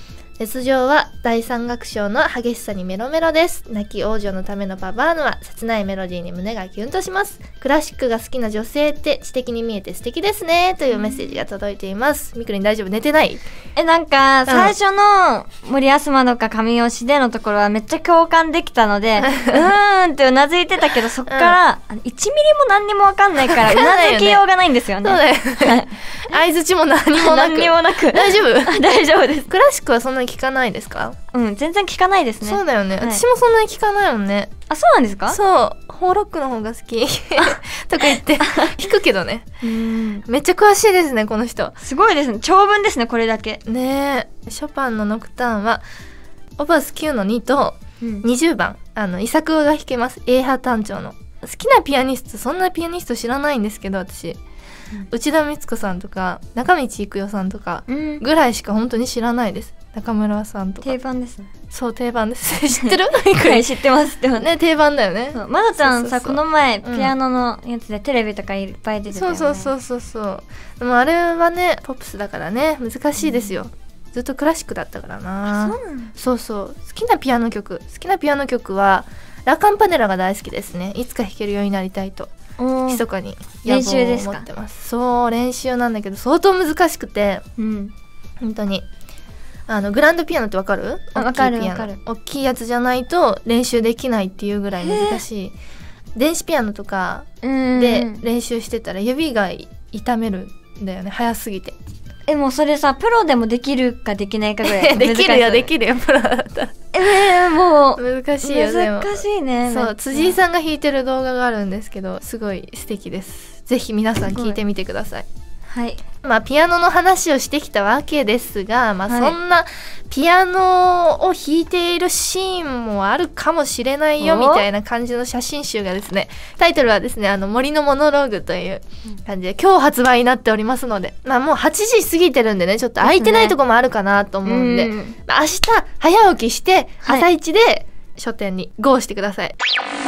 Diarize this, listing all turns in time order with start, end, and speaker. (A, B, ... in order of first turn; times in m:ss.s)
0:00.4-0:13.4 A
0:10.9-0:11.4 B
0:13.8-0:26.3 B
0:14.5-0:14.7 A
0:19.2-0:19.6 A
0:21.3-0:21.6 A
0:23.4-0:24.4 A
0:25.0-0:28.8 A
0:27.2-0:29.5 B
0:29.5-0:31.2 A
0:31.3-0:33.2 B
0:32.4-0:34.5 A
0:34.7-0:35.4 B
0:35.3-0:39.5 A
0:38.4-0:38.8 B
0:39.6-0:40.2 B
0:40.3-0:41.8 A
0:41.8-0:43.6 B
0:43.6-0:45.8 A
0:46.6-0:54.4 A
0:55.1-1:00.9 A
0:57.9-0:58.2 B
1:00.8-1:01.5 B
1:01.7-1:03.7 A
1:02.8-1:04.5 B
1:04.4-1:07.1 A
1:05.3-1:09.7 B
1:09.1-1:22.3 A
1:15.5-1:16.1 B
1:22.6-1:23.0 B
1:22.9-1:27.4 A
1:23.6-1:24.4 B
1:27.6-1:27.9 B
1:28.4-1:28.8 A
1:29.7-1:35.5 A
1:31.2-1:32.0 B
1:34.8-1:35.2 B
1:36.1-1:41.8 A
1:37.4-1:38.2 B
1:42.3-1:45.7 B
1:44.6-1:46.8 A
1:46.9-1:50.4 B
1:48.0-1:55.2 A
1:55.7-1:56.0 B
1:56.2-2:19.6 A
1:59.1-1:59.3 B
2:04.2-2:04.6 B
2:13.0-2:13.6 B
2:14.4-2:15.2 B